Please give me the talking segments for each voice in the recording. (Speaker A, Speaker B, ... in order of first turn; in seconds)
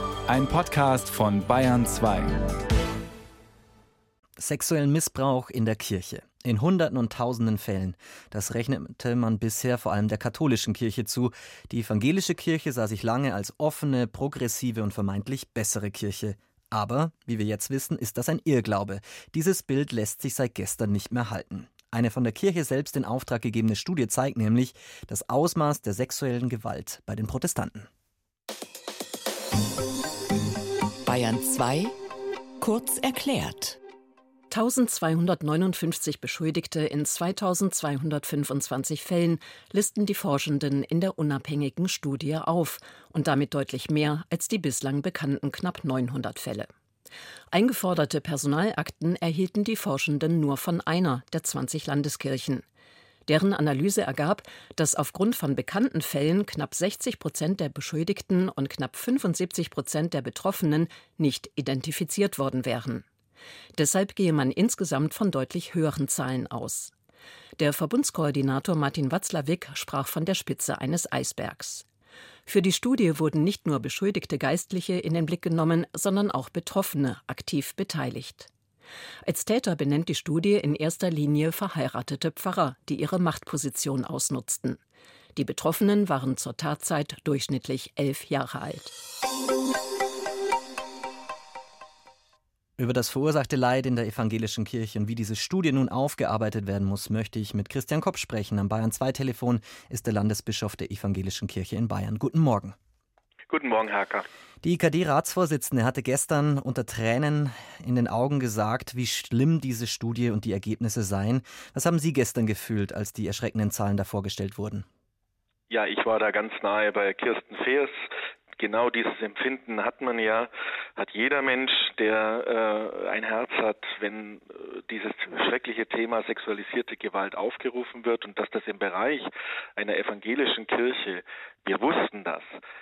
Speaker A: 0.3-2.3
Speaker B: 4.4-27.9, 92.8-102.8, 104.6-114.8
Speaker C: 31.0-31.9, 32.6-33.8
Speaker D: 34.5-46.7, 47.5-52.6, 53.3-63.0, 63.7-66.9, 67.6-71.8, 72.5-78.5, 79.2-84.8, 85.3-88.9
Speaker E: 103.5-104.3, 115.7-132.5